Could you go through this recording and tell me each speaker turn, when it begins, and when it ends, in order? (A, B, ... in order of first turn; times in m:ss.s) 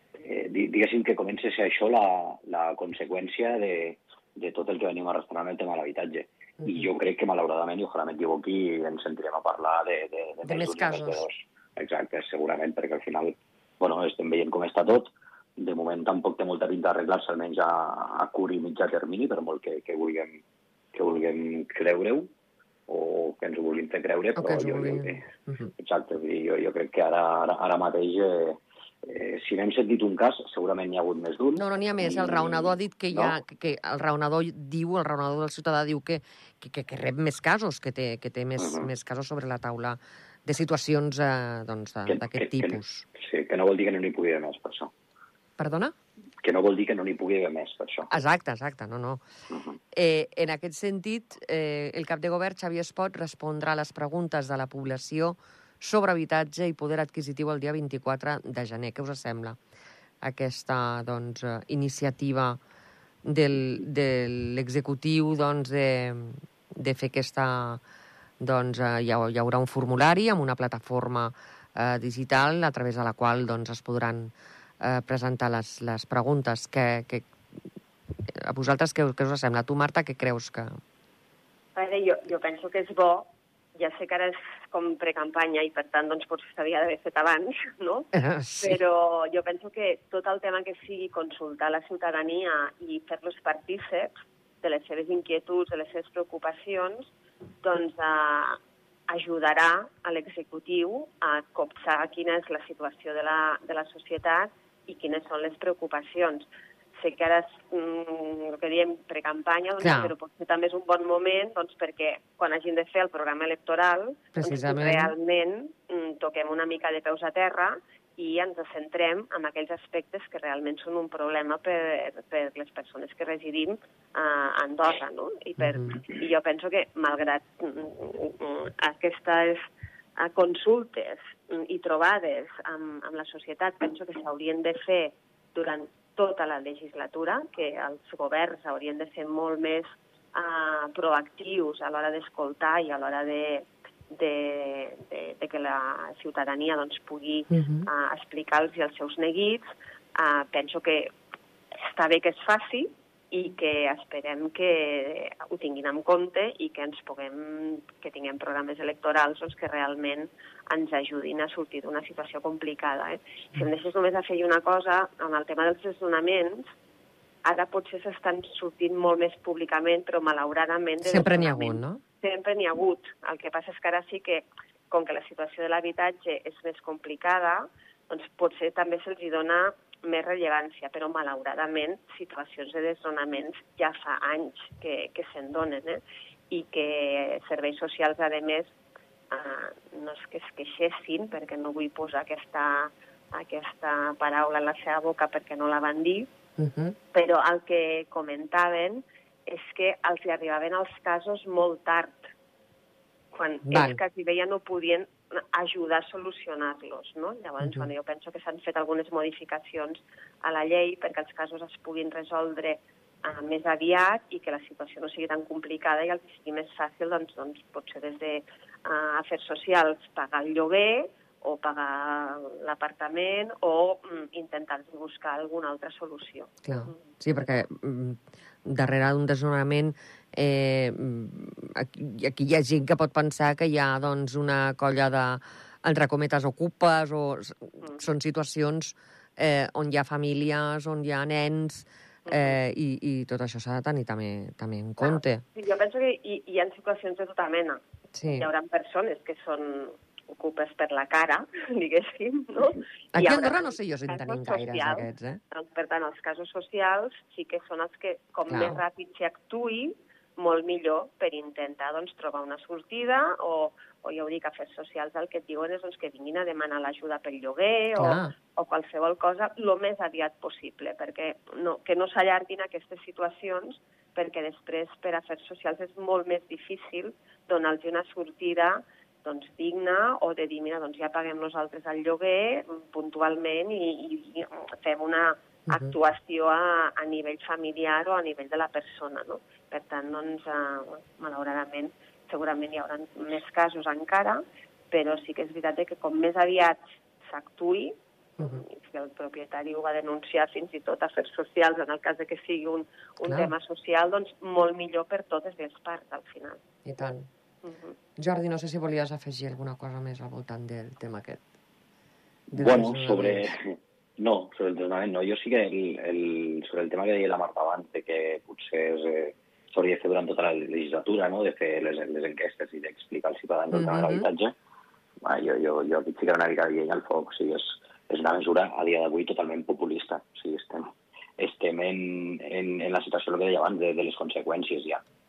0:00.2-0:20.4 A
0:06.6-0:06.9 B
0:10.4-0:11.2 B
0:20.9-0:22.3 A
0:22.9-0:25.2 A
0:24.4-0:25.7 B
0:25.8-0:33.4 A
0:31.6-0:43.0 B
0:38.6-0:38.9 A
0:42.1-0:44.9 A
0:45.6-0:45.9 B
0:46.4-0:48.1 A
0:48.1-0:49.2 B
0:49.5-0:49.8 A
0:49.9-0:59.6 B
1:00.2-1:02.6 B
1:03.2-1:07.8 B
1:08.4-1:17.3 B
1:18.1-1:20.8 B
1:21.7-1:37.1 C
1:28.1-1:28.8 B
1:37.6-1:46.4 C
1:47.0-2:09.6 C
1:49.8-1:50.1 B
1:54.4-1:55.1 B
2:05.6-2:06.0 B
2:10.2-2:31.1 C
2:27.5-2:27.9 B
2:31.8-2:46.7 C
2:47.4-3:08.7 C
2:51.0-2:52.0 B
3:09.3-3:16.3 C
3:16.6-3:17.0 B
3:17.1-3:22.3 C
3:23.3-3:47.0 C
3:23.7-3:24.0 B
3:27.6-3:27.9 B
3:46.6-4:05.4 B
4:02.2-4:02.6 C
4:05.0-4:07.8 C
4:08.1-4:08.5 B
4:08.4-5:06.6 C
4:13.1-4:15.4 B
4:18.5-4:18.8 B
4:28.0-4:28.3 B
4:45.7-4:45.9 B
5:03.2-5:03.5 B
5:06.8-5:07.3 B
5:07.6-5:08.0 C
5:08.2-5:11.4 B
5:12.5-5:24.5 A
5:12.5-5:13.5 B
5:23.7-5:24.3 B
5:25.2-5:35.0 A